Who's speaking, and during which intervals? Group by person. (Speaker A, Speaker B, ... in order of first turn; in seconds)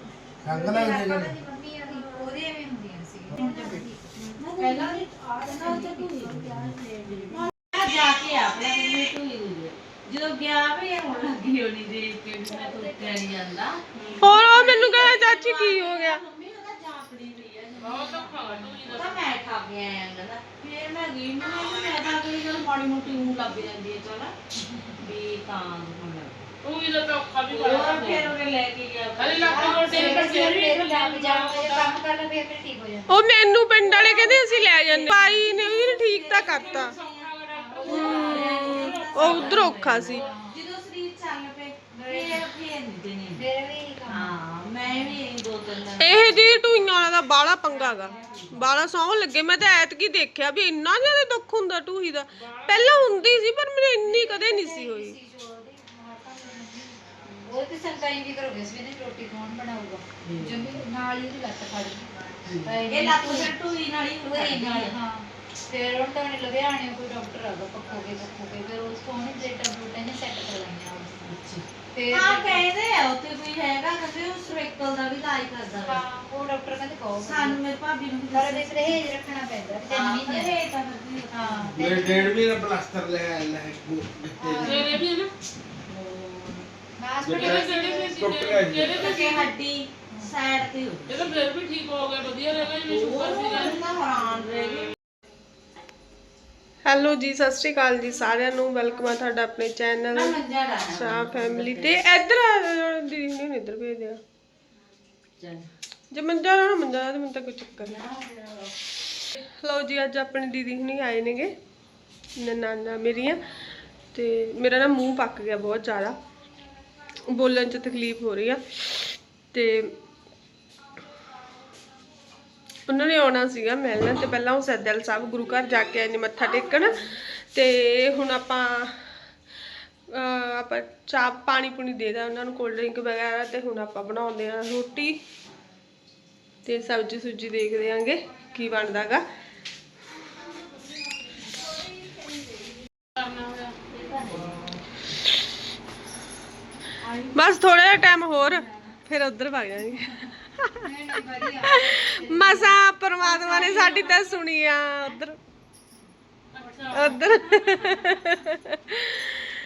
Speaker A: 0.4-1.4, 3.3-3.8, 81.7-84.8, 87.2-89.2
Speaker B: 0.5-4.0, 4.6-6.5, 7.1-7.5, 12.6-13.1, 24.6-25.0, 29.4-33.2, 37.5-38.9, 40.1-40.6, 41.9-42.5, 43.4-45.2, 47.7-48.5, 54.0-62.1, 62.6-63.5, 64.3-71.3, 71.9-72.7, 75.8-77.6, 78.3-80.5, 81.3-81.9, 84.4-85.0, 87.0-88.2, 148.4-148.7, 150.8-154.2
Speaker C: 1.9-2.3, 14.2-16.2, 33.1-37.0, 37.9-40.2, 46.0-55.2, 96.8-100.4, 101.0-104.2, 106.1-108.1, 109.4-111.5, 112.4-113.4, 114.1-116.2, 117.3-119.9, 122.9-129.0, 130.1-135.2, 136.7-139.2, 147.3-150.2, 152.2-155.4, 156.9-159.5
Speaker D: 4.2-24.3, 25.0-26.4, 27.5-30.3, 33.9-37.3, 38.3-43.4, 44.1-46.6, 60.2-60.8, 62.5-65.0, 71.2-76.0, 77.2-79.0, 79.9-82.3, 85.9-86.7, 89.0-91.1, 92.9-94.9, 100.1-102.0, 105.4-105.7, 107.8-108.7, 143.9-144.6
Speaker E: 13.9-14.8, 17.8-19.2, 26.6-28.4, 29.2-32.0, 36.4-40.3, 47.8-48.5, 52.3-53.5, 84.6-85.3, 87.3-89.5, 91.1-94.9, 143.1-143.8, 153.5-154.3, 156.5-158.2